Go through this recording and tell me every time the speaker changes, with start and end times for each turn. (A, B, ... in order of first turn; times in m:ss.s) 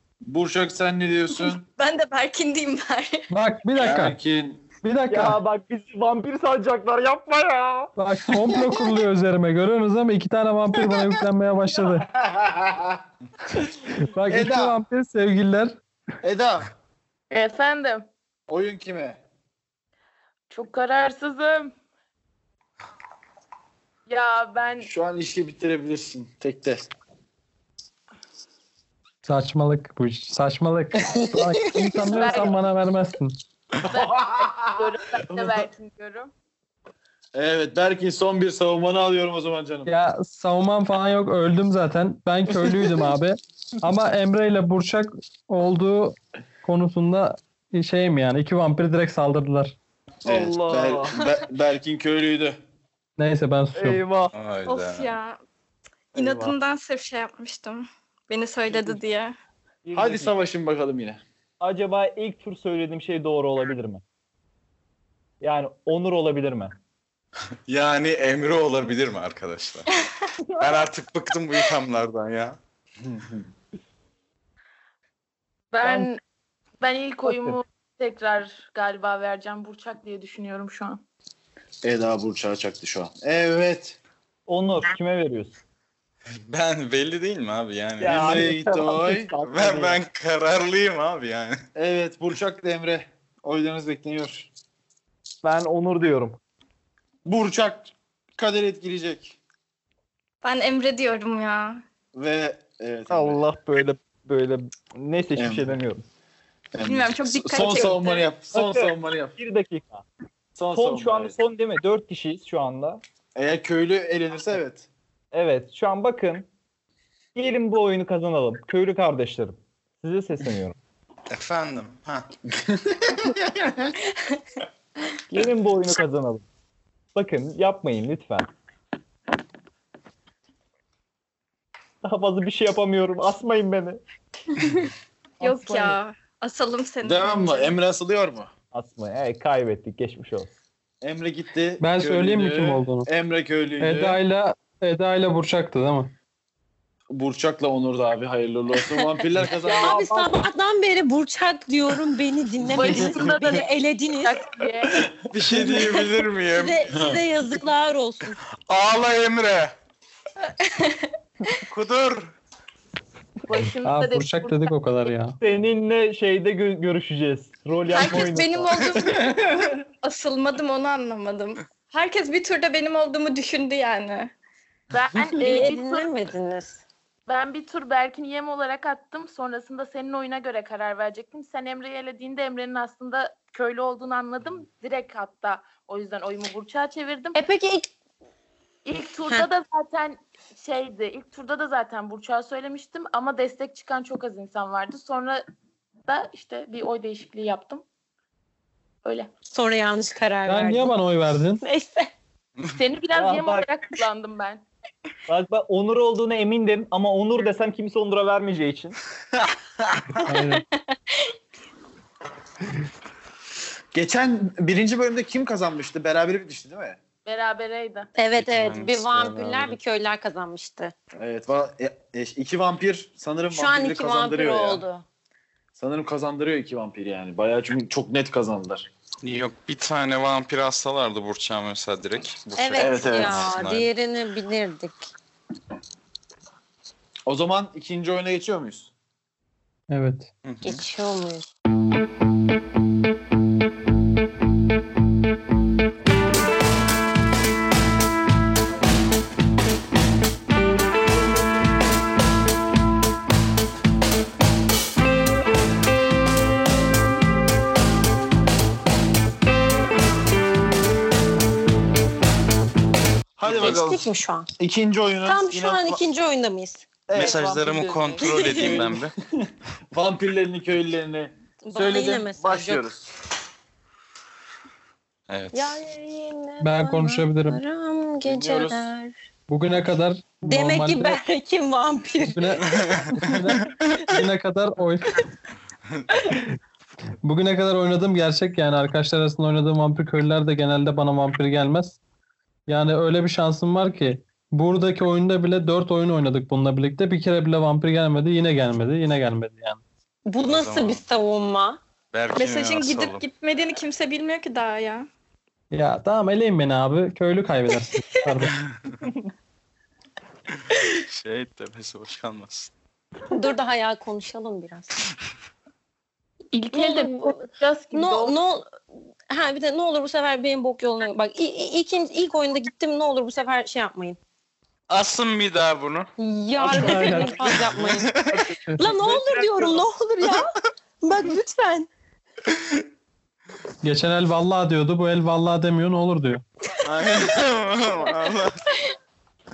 0:00.2-0:01.6 A
0:01.3-0:03.2 B
0:03.3-0:04.2 C
0:03.8-0:04.7 A
0:04.8-0:05.4 C
0:05.1-0:07.9 D
0:08.0-0:12.1 C
0:12.1-0:13.0 A
0:14.1-0:15.8 C
0:14.3-0:14.8 A
0:16.2-0:16.7 A
0:17.3-0:18.0 E
0:18.5-0:19.2 A
0:20.5-0:21.7 E
0:24.1-0:24.9 E
0:24.8-0:26.9 A
0:29.2-0:33.4 C
0:31.1-0:32.4 A
0:32.1-0:32.6 E
0:33.8-0:35.7 A
0:33.8-0:36.3 E
0:37.4-0:39.9 A
0:39.9-0:49.8 C
0:50.2-0:51.2 D
0:50.2-0:52.6 A
0:53.2-0:54.0 C
0:53.8-0:54.3 D
0:54.3-0:55.1 F
0:54.7-0:55.4 B
0:56.1-0:59.4 B
0:56.1-0:56.5 D
0:59.8-1:00.4 D
0:59.9-1:01.2 A
1:01.6-1:04.0 D
1:05.4-1:06.8 D
1:07.7-1:09.9 F
1:10.5-1:10.9 D
1:10.6-1:12.6 F
1:13.0-1:13.5 A
1:15.7-1:16.2 E
1:15.8-1:16.1 D
1:16.8-1:21.0 E
1:17.2-1:17.6 D
1:21.8-1:24.0 A
1:24.5-1:25.6 D
1:26.3-1:28.2 F
1:28.0-1:30.0 D
1:28.0-1:29.3 A
1:29.4-1:31.6 F
1:31.8-1:34.5 A
1:35.4-1:36.4 D
1:37.2-1:39.4 A
1:40.4-1:41.8 B
1:42.1-1:43.4 A
1:43.1-1:46.0 D
1:45.4-1:45.8 A
1:46.7-1:49.4 A
1:46.8-1:48.2 B
1:48.5-1:50.0 D
1:50.6-1:51.4 A
1:50.7-1:53.0 D
1:53.4-1:54.9 A
1:55.3-1:56.5 D
1:57.4-2:00.8 D
2:01.3-2:02.3 F
2:02.5-2:04.0 A
2:05.3-2:06.4 D
2:07.1-2:08.5 D
2:12.0-2:14.0 D
2:15.4-2:17.8 B
2:15.4-2:16.0 E
2:17.0-2:18.5 A
2:18.7-2:20.5 D
2:21.0-2:24.2 A
2:21.8-2:23.1 C
2:23.8-2:26.1 C
2:27.1-2:30.1 A
2:29.5-2:30.4 E
2:29.7-2:34.4 G
2:32.7-2:35.1 E
2:32.8-2:33.3 A
2:35.3-2:36.9 F
2:35.5-2:35.8 A
2:36.5-2:38.4 G
2:38.7-2:39.7 F
2:40.6-2:41.6 B
2:41.7-2:42.3 F
2:43.5-2:44.7 E
2:43.8-2:45.4 C
2:45.4-2:49.0 D
2:47.9-2:49.3 B
2:49.0-2:49.8 A
2:50.0-2:54.3 B
2:54.9-2:56.1 E
2:55.2-2:56.8 G
2:57.3-3:07.4 E
3:07.4-3:07.9 G
3:08.8-3:15.4 E
3:09.2-3:09.5 G
3:16.1-3:17.8 E
3:19.0-3:19.3 E
3:19.5-3:20.9 G
3:20.5-3:21.6 C
3:21.6-3:22.1 G
3:22.7-3:24.6 E
3:23.1-3:23.7 D
3:25.3-3:29.0 D
3:30.2-3:30.6 C
3:30.6-3:31.3 B
3:33.9-3:37.0 A
3:37.2-3:38.1 E
3:38.2-3:40.9 G
3:38.4-3:39.8 F
3:41.2-3:44.8 A
3:43.5-3:45.0 G
3:45.8-3:48.9 A
3:49.2-3:53.9 F
3:52.6-3:55.1 G
3:52.8-3:53.4 A
3:57.3-3:58.9 A
3:59.9-4:00.3 C
4:00.4-4:00.8 F
4:00.6-4:01.4 G
4:23.4-4:24.0 A
4:23.5-4:24.5 G
4:24.6-4:26.0 A
4:25.2-4:26.8 G
4:27.1-4:33.1 A
4:27.1-4:29.1 F
4:28.2-4:28.8 G
4:31.6-4:32.8 G
4:35.3-4:35.8 F
4:35.5-4:39.1 G
4:36.6-4:37.6 C
4:38.2-4:38.9 A
4:39.5-4:41.2 C
4:40.4-4:42.6 G
4:42.2-4:45.2 C
4:42.6-4:44.2 F
4:47.2-4:52.0 C
4:52.7-4:59.8 C
5:00.3-5:01.8 G
5:00.4-5:01.0 F
5:02.1-5:03.2 F
5:02.4-5:05.0 B
5:05.7-5:08.6 C
5:08.6-5:08.9 F
5:10.7-5:12.7 F
5:13.3-5:15.0 G
5:16.5-5:18.4 E
5:16.7-5:18.8 G
5:19.3-5:24.2 G
5:24.9-5:26.1 F
5:26.2-5:31.9 G
5:26.6-5:27.6 C
5:26.7-5:28.5 F
5:28.4-5:28.9 C
5:29.0-5:29.8 F
5:32.5-5:32.8 F
5:33.8-5:36.4 C
5:36.8-5:38.6 F